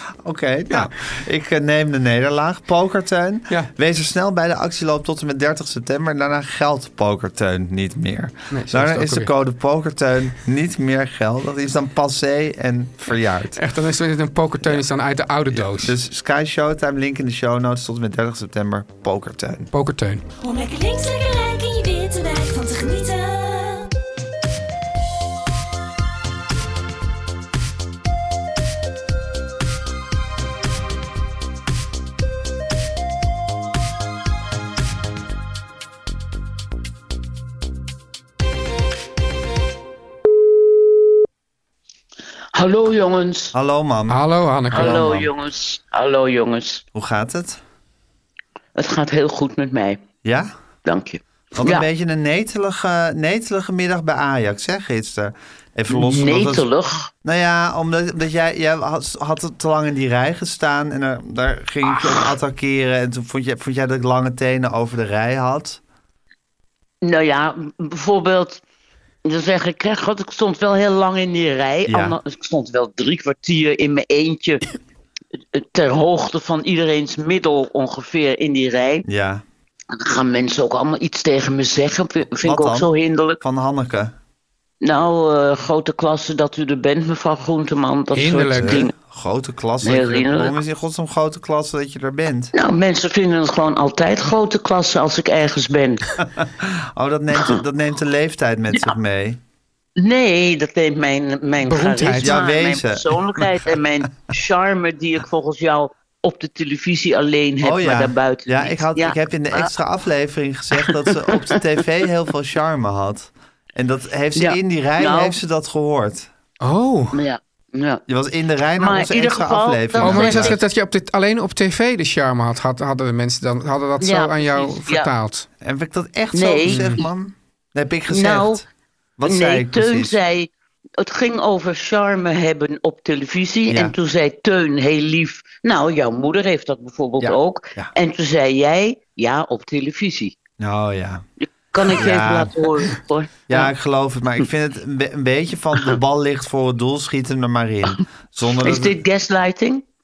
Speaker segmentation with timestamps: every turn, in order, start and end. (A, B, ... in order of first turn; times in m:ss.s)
0:00.2-0:13.6 A
0:08.5-0:09.3 B
0:13.6-0:16.0 B
0:15.5-0:19.7 A
0:19.7-0:20.2 B
0:20.4-0:23.9 C
0:42.5-0:43.6 D
0:43.5-0:45.3 A
0:44.1-0:45.2 B
0:44.7-0:46.8 D
0:46.9-0:47.6 A
0:48.8-0:50.0 D
0:50.2-0:50.5 A
0:50.8-0:51.9 D
0:51.6-0:56.7 A
0:55.9-0:57.1 D
0:57.2-1:05.8 A
1:07.0-1:08.6 D
1:09.2-1:14.6 D
1:11.9-1:12.2 A
1:15.5-1:19.1 D
1:19.1-1:19.4 A
1:19.9-1:23.4 D
1:22.4-1:22.9 A
1:23.4-1:24.2 A
1:24.8-1:28.9 D
1:28.1-1:28.8 B
1:28.6-1:32.5 A
1:29.8-1:30.6 D
1:32.5-1:36.0 D
1:36.4-1:39.4 A
1:40.0-1:49.7 D
1:41.6-1:42.4 B
1:42.2-1:43.6 A
1:47.6-1:56.3 A
1:50.8-1:51.6 D
1:54.4-1:55.4 D
1:56.6-1:57.2 B
1:57.1-1:58.0 D
1:58.1-2:00.6 A
1:58.8-2:00.6 D
2:00.0-2:05.5 B
2:04.0-2:05.1 D
2:05.6-2:08.6 A
2:06.3-2:07.0 D
2:06.7-2:07.0 B
2:08.1-2:08.6 D
2:09.2-2:10.2 A
2:09.2-2:20.4 D
2:13.7-2:14.0 A
2:17.2-2:17.9 A
2:20.6-2:21.3 A
2:21.4-2:23.7 D
2:21.9-2:22.7 A
2:23.5-2:29.0 A
2:28.5-2:29.9 D